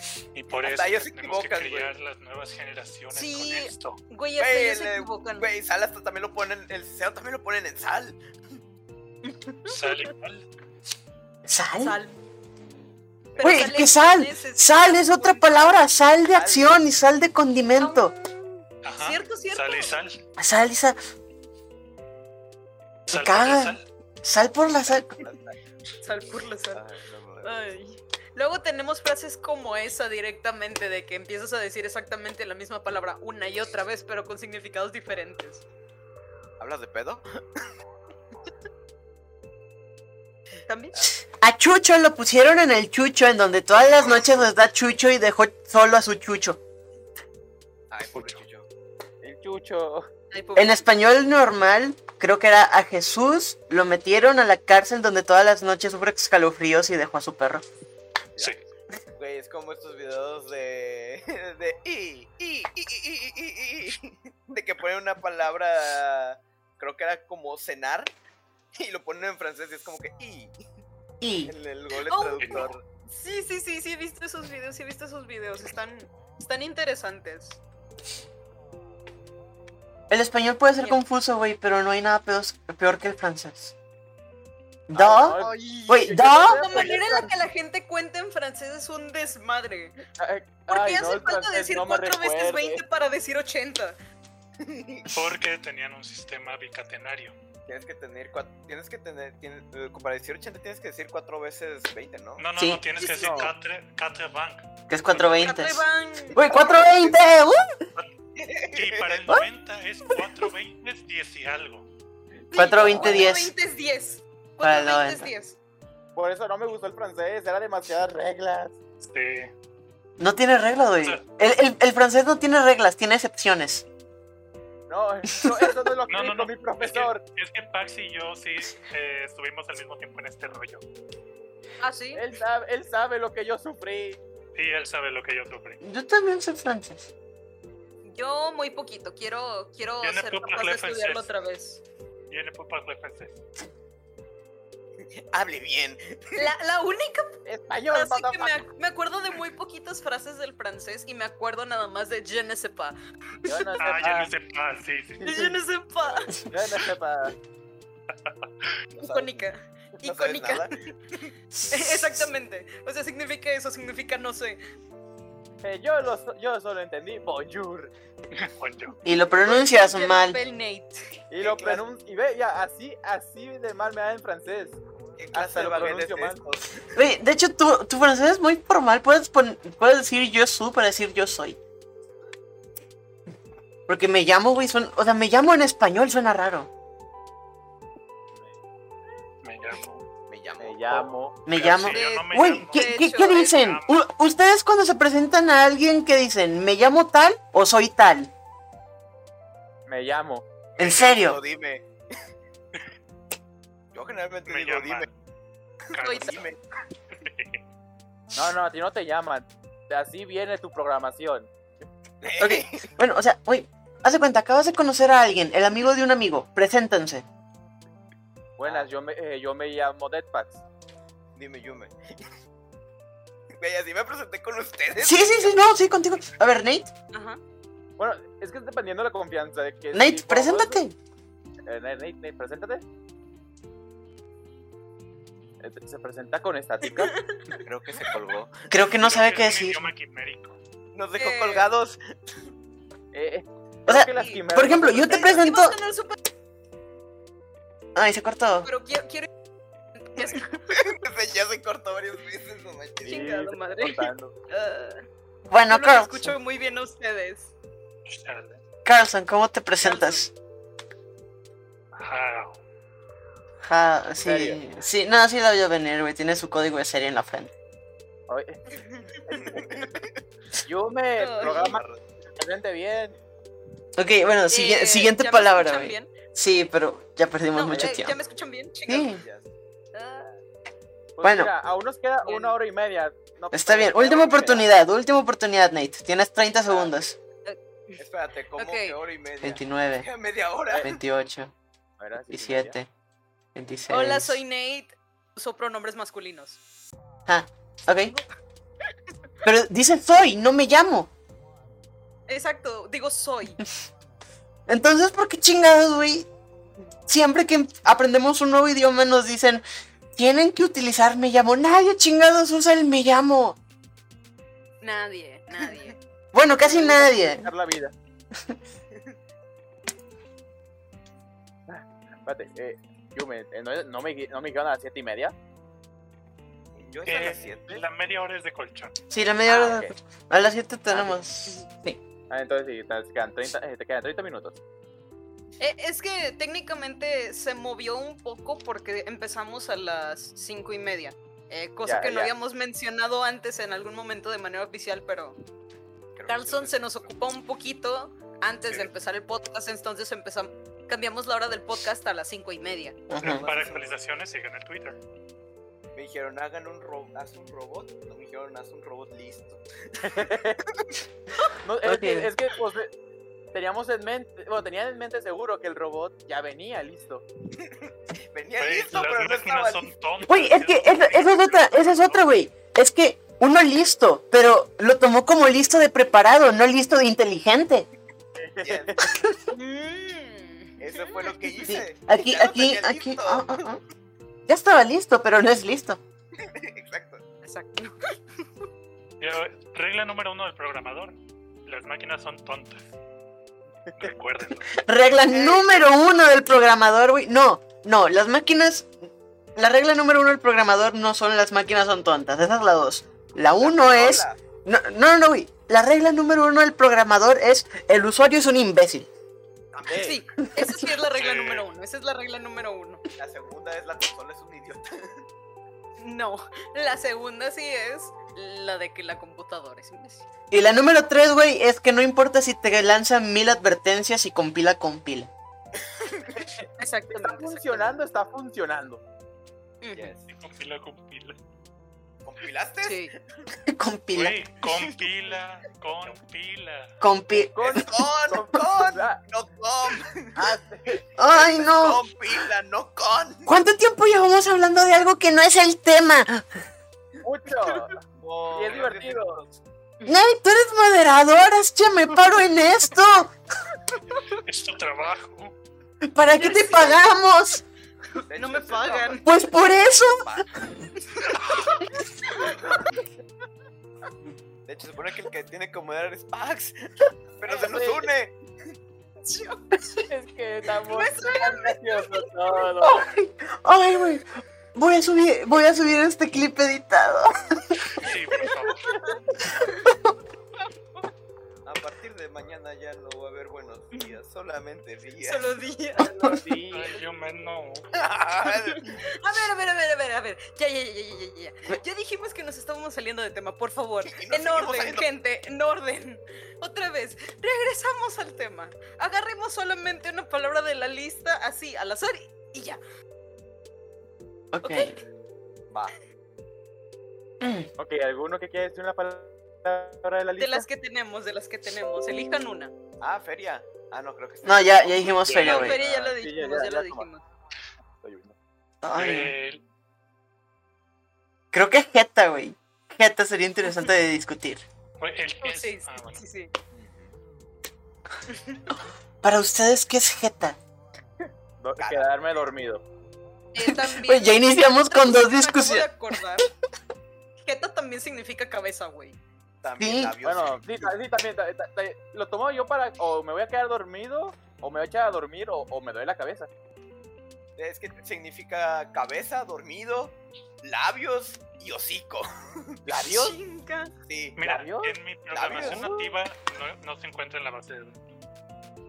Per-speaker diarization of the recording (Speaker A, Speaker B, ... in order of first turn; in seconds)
Speaker A: 0.3-4.0, 9.7-10.5, 18.8-20.2, 23.1-23.9, 48.1-48.4, 72.4-72.7, 95.1-97.3, 102.4-105.5, 108.7-111.9, 119.0-119.5, 126.1-130.8, 134.6-135.8, 140.0-141.3, 142.3-143.4, 153.8-155.3, 158.1-158.8, 168.3-169.0, 189.4-190.1, 191.5-194.0, 204.5-205.1, 205.9-206.5, 207.2-207.6, 238.9-240.6, 258.1-258.6, 261.9-262.6, 327.0-329.0, 353.2-355.0, 368.6-372.2, 389.2-392.9, 394.0-394.7, 411.1-411.7, 430.3-431.4, 434.1-436.9, 454.3-455.6, 477.9-479.0, 486.7-487.9, 515.2-515.7, 518.9-519.6, 525.0-526.2, 554.4-558.0
Speaker B: 0.6-1.9, 4.4-8.2, 13.3-13.7, 16.3-16.9, 24.9-25.6, 26.7-27.6, 36.6-37.7, 43.8-44.4, 47.9-48.7, 58.4-68.1, 68.8-70.5, 71.5-72.8, 94.6-95.1, 97.7-102.5, 106.5-107.2, 108.4-109.3, 145.0-146.5, 156.0-156.3, 158.9-159.5, 160.0-160.7, 171.4-171.8, 175.2-176.8, 190.3-191.1, 200.8-201.9, 203.9-205.1, 206.2-206.6, 212.2-212.9, 218.6-218.9, 221.3-222.0, 223.6-225.6, 237.6-238.7, 240.9-242.0, 250.2-253.3, 269.3-270.1, 271.4-272.0, 279.1-279.5, 288.0-290.9, 326.8-327.8, 346.2-347.2, 353.2-353.9, 355.9-359.6, 367.6-369.9, 378.6-379.1, 380.8-383.7, 386.4-387.2, 395.3-395.7, 403.6-404.4, 409.7-410.1, 413.2-415.2, 429.9-430.3, 432.2-433.4, 437.6-440.6, 441.3-443.6, 448.2-449.5, 458.3-459.2, 460.2-460.5, 464.7-466.9, 467.4-468.3, 481.6-485.5, 488.0-489.0, 494.1-495.1, 505.7-506.0, 513.0-515.2, 531.8-532.1, 539.6-540.8, 547.6-552.8, 554.1-554.4, 555.3-555.9
Speaker C: 3.1-5.5, 9.2-10.1, 11.8-12.1, 13.4-15.8, 17.8-20.0, 26.0-26.8, 27.4-35.6, 40.7-41.0, 50.3-50.9, 72.0-77.6, 85.3-90.0, 90.7-94.0, 103.0-103.4, 105.4-106.5, 112.5-115.6, 131.8-132.2, 138.0-141.8, 146.3-153.7, 155.2-156.4, 159.0-164.6, 169.4-171.1, 191.9-193.6, 206.0-206.4, 227.1-227.4, 236.8-237.6, 241.2-241.7, 244.2-244.4, 245.1-246.2, 248.6-249.3, 250.0-250.8, 253.1-255.1, 255.7-257.5, 259.8-260.2, 268.8-269.2, 271.2-271.8, 274.5-276.1, 277.5-279.2, 279.9-280.4, 282.2-282.6, 287.4-288.0, 288.6-289.0, 293.9-296.6, 302.3-303.6, 314.8-316.0, 335.6-345.4, 346.3-353.0, 379.5-381.4, 387.4-388.6, 409.9-413.0, 416.0-420.3, 426.8-427.9, 429.8-430.1, 432.8-433.1, 453.9-454.4, 456.3-457.0, 458.1-459.3, 461.2-463.0, 469.2-470.1, 470.9-472.6, 478.9-479.9, 485.2-486.4, 488.4-502.8, 504.6-504.9, 510.4-512.7, 515.4-517.2, 525.4-526.5, 528.3-528.6, 533.5-536.5, 537.4-539.2, 553.0-553.9
Speaker D: 11.4-12.0, 13.4-18.1, 20.4-21.0, 23.1-25.1, 41.2-46.6, 50.6-57.6, 71.2-71.5, 80.1-83.7, 84.9-87.0, 102.6-102.8, 104.9-105.8, 106.3-107.6, 112.5-113.5, 114.6-115.3, 120.2-123.8, 125.4-125.7, 135.8-137.1, 161.5-162.2, 169.1-170.4, 177.0-181.6, 183.9-186.7, 191.5-198.3, 200.8-201.4, 212.4-217.2, 225.0-226.9, 229.9-230.9, 238.7-239.8, 243.9-245.8, 247.9-248.7, 255.5-256.4, 258.9-260.3, 263.6-267.5, 274.0-278.1, 278.9-279.2, 281.2-281.5, 283.5-287.2, 289.4-290.1, 290.8-291.5, 292.3-292.9, 293.6-294.4, 297.3-298.2, 299.4-301.1, 304.7-306.3, 307.1-309.6, 310.2-313.6, 316.3-317.5, 329.1-332.0, 353.1-353.5, 361.8-362.3, 370.2-377.9, 379.0-379.4, 381.6-383.8, 384.5-386.0, 394.7-398.9, 399.6-409.1, 420.5-425.3, 433.7-434.4, 437.0-437.9, 441.2-442.0, 443.5-446.6, 450.1-453.3, 456.1-457.6, 459.2-460.3, 472.8-477.8, 479.9-480.1, 504.5-504.9, 507.4-507.7, 514.4-515.8, 518.8-519.3, 521.5-524.6, 529.2-530.6, 533.6-535.9, 539.8-540.1
Speaker E: 49.2-50.1, 85.0-87.3, 90.2-92.8, 103.2-103.5, 112.7-113.3, 116.2-118.8, 124.9-127.2, 132.1-134.2, 147.5-148.6, 153.5-154.3, 155.2-155.6, 156.5-157.3, 165.6-167.9, 171.3-174.8, 175.3-176.4, 190.6-191.4, 199.9-200.4, 208.3-211.5, 218.6-220.6, 228.0-230.8, 231.7-232.8, 235.6-237.1, 243.1-245.3, 253.0-254.3, 264.2-264.6, 268.3-269.8, 270.6-273.2, 281.2-284.7, 286.7-287.0, 290.7-290.9, 292.0-292.8, 316.6-317.9, 321.7-325.3, 327.2-327.5, 329.5-329.9, 330.9-331.2, 332.3-334.6, 341.9-342.3, 360.0-360.6, 361.6-362.9, 363.5-367.2, 378.4-379.1, 409.9-410.2, 426.4-429.0, 437.6-439.2, 440.4-441.0, 447.2-449.4, 467.4-468.1, 470.1-473.1, 486.1-487.0, 507.8-510.7, 515.5-517.1, 518.0-518.4, 526.7-527.1, 531.6-532.8, 540.2-546.5, 552.9-553.4, 554.4-556.1